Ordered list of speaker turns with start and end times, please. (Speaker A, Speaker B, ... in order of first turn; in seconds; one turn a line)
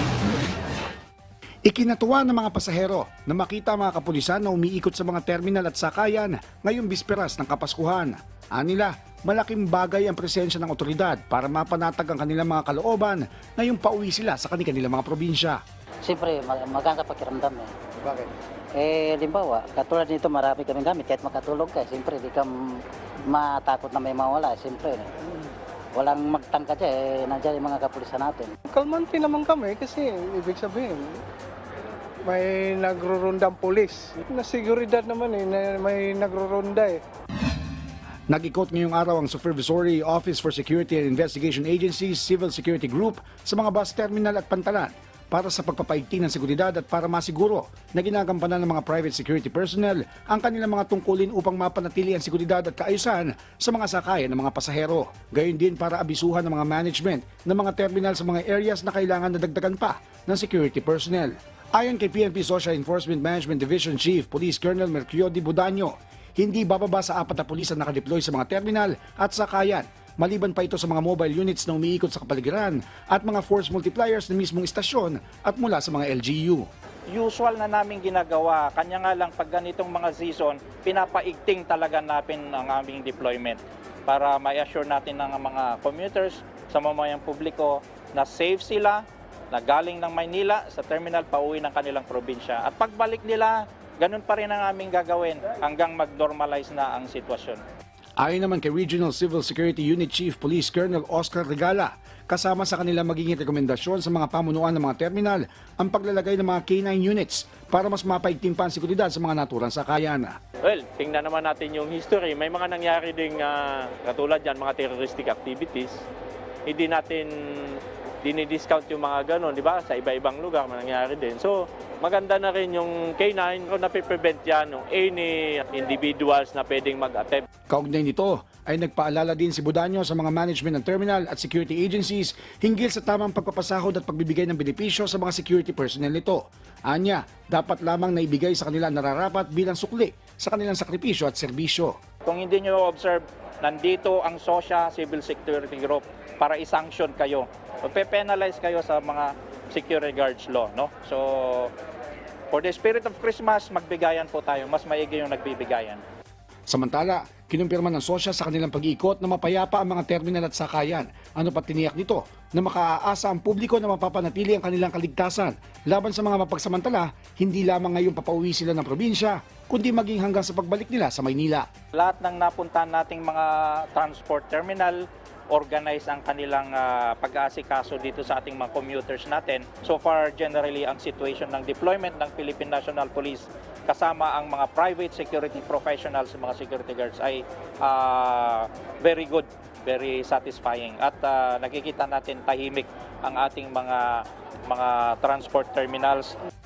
Speaker A: 1.7-15.6
Speaker B: 16.0-25.2
Speaker B: 25.9-28.5
Speaker C: 28.7-31.2
Speaker C: 32.2-37.0
Speaker A: 38.3-76.7
Speaker D: 77.1-97.6
Speaker A: 98.2-110.3
Speaker E: 110.6-116.0
Speaker E: 116.7-127.5
Speaker A: 127.7-141.9
Speaker D: 142.2-151.7
Speaker D: 152.5-156.0
Speaker A: 156.7-171.7
Speaker D: 171.9-196.4